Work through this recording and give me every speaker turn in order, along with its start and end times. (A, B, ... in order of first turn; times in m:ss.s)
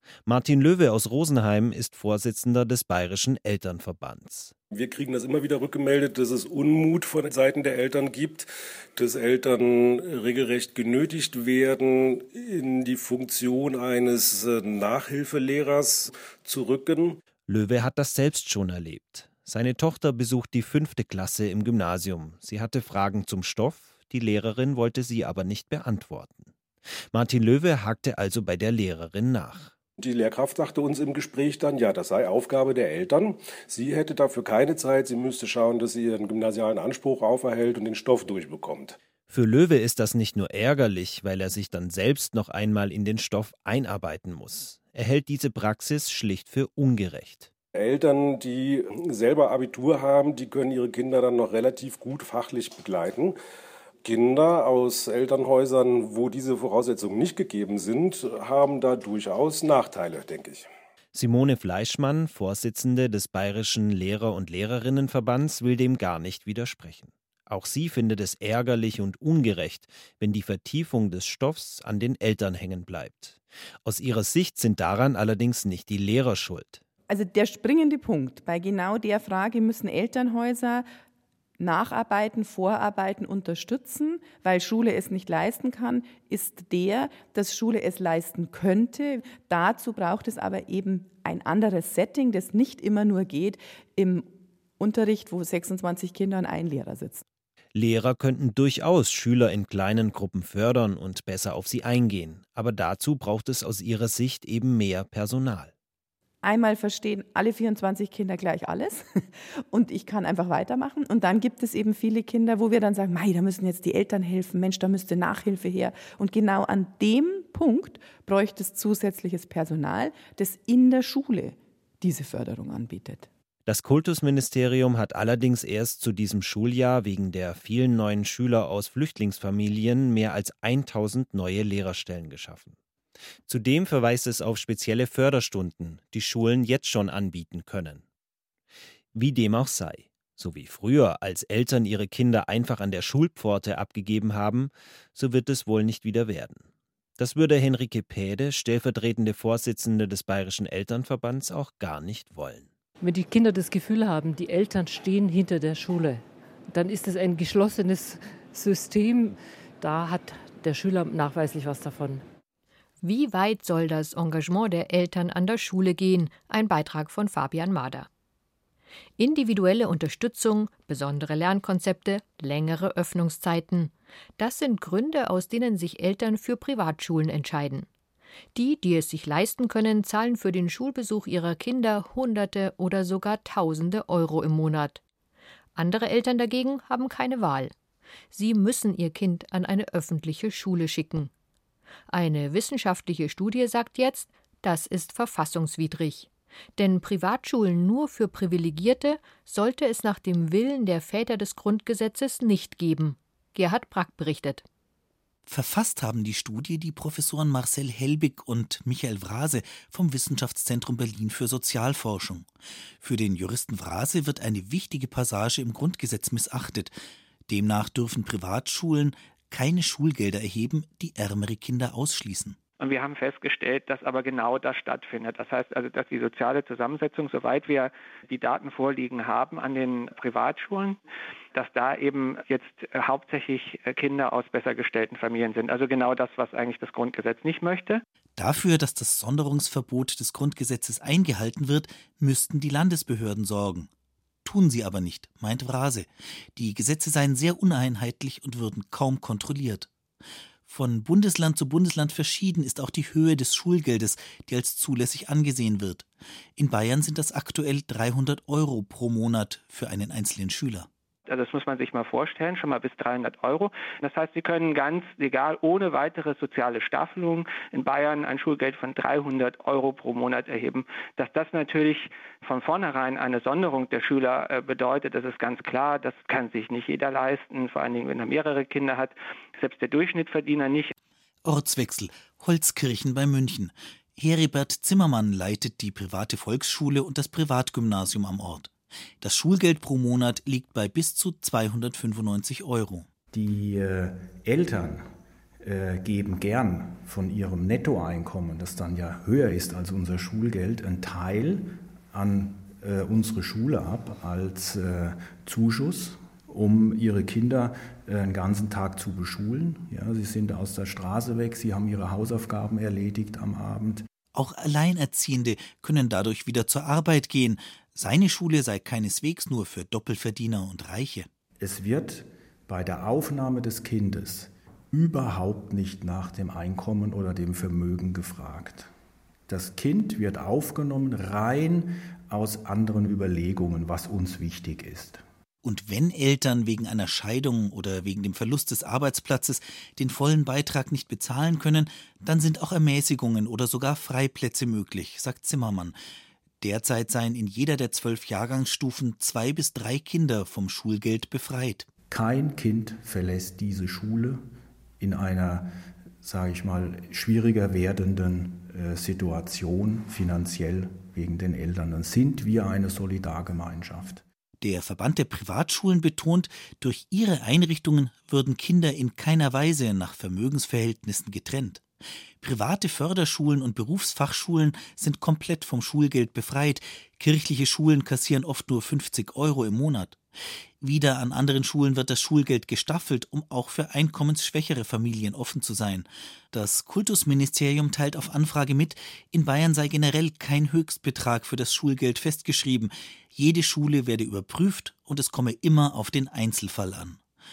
0:00.3-0:04.5 A
0:04.7-0:17.2 B
0:17.5-0:26.5 A
0:27.1-0:29.7 A
0:30.0-0:39.0 B
0:39.3-0:47.5 A
0:47.8-0:53.4 B
0:54.0-1:00.7 B
1:01.1-1:16.8 A
1:17.1-1:20.9 C
1:21.6-1:37.2 C
1:37.8-1:45.7 A
1:46.4-2:03.3 C
2:03.7-2:12.8 A
2:13.5-2:18.0 A
2:19.1-2:32.7 A
2:33.0-2:42.2 D
2:43.0-2:48.1 E
2:49.2-2:57.9 E
2:58.6-3:05.0 E
3:05.8-3:07.7 E
3:08.3-3:11.3 E
3:12.1-3:24.6 E
3:25.5-3:32.5 F
3:33.0-3:37.0 F
3:37.5-3:42.6 F
3:42.8-3:51.0 G
3:51.6-3:58.0 G
3:58.4-4:03.9 F
4:04.4-4:09.9 F
4:10.7-4:16.1 F
4:16.6-4:20.9 F
4:21.3-4:40.9 G
4:41.4-4:53.1 F
4:53.3-4:55.1 H
4:55.6-5:14.1 H
5:14.3-5:21.3 F
5:21.6-5:28.9 H
5:29.5-5:35.2 H
5:35.6-5:46.0 F
5:46.6-5:51.9 F
5:52.1-5:54.4 H
5:55.0-5:55.7 H
5:56.2-6:04.2 H
6:04.6-6:11.8 F
6:12.4-6:20.2 F
6:20.8-6:37.2 F